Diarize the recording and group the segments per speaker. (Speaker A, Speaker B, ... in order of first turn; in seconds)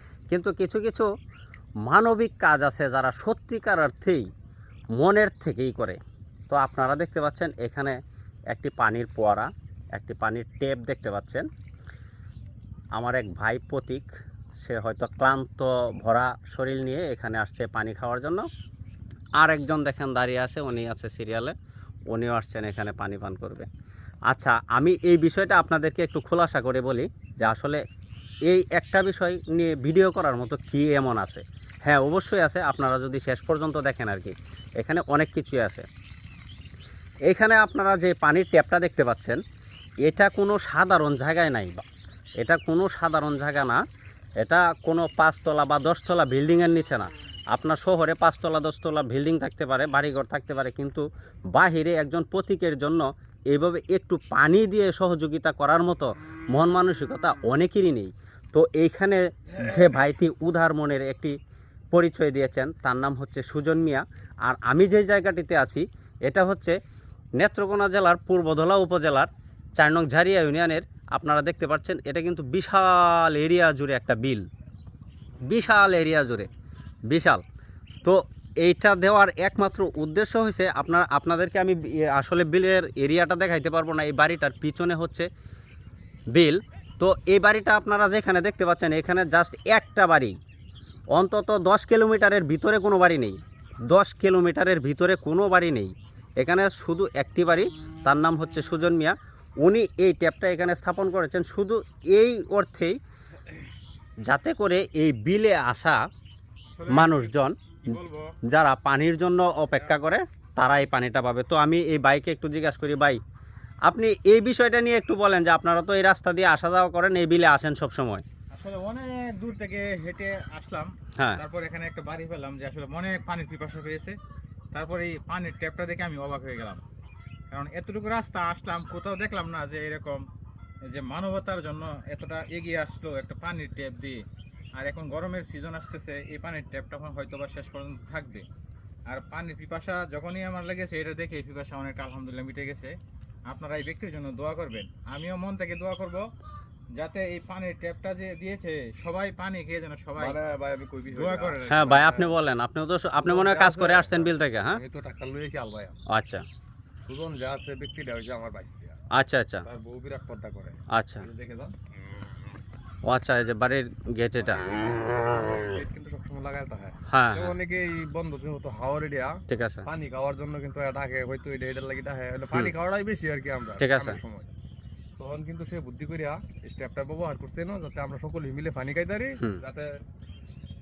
Speaker A: 0.3-1.1, 1.9-4.2, 5.0-6.0, 6.5-7.9, 8.5-11.5, 12.9-14.1, 14.6-18.5, 19.4-21.5, 22.1-23.7, 24.3-27.8, 28.5-35.9, 37.3-39.4, 40.0-41.8, 42.4-43.8, 44.4-61.3, 61.9-66.7, 67.4-74.4, 75.4-76.5, 77.1-77.4, 78.0-85.3, 86.3-90.3, 91.2-93.4, 93.9-103.0, 104.2-106.0, 106.9-107.9, 108.5-113.2, 113.9-118.2, 151.7-154.8, 156.1-156.4, 159.1-159.7, 160.9-161.2, 163.1-165.1, 167.1-167.5, 169.5-169.8, 173.8-174.2
Speaker B: 106.8-108.3, 118.5-124.2, 124.7-126.8, 127.5-130.2, 130.9-134.2, 134.8-138.4, 139.1-142.9, 143.5-146.2, 147.0-150.4, 151.1-152.3
Speaker C: 150.2-151.6, 153.2-156.0, 157.0-159.0, 159.6-161.7, 164.5-174.5, 175.2-179.9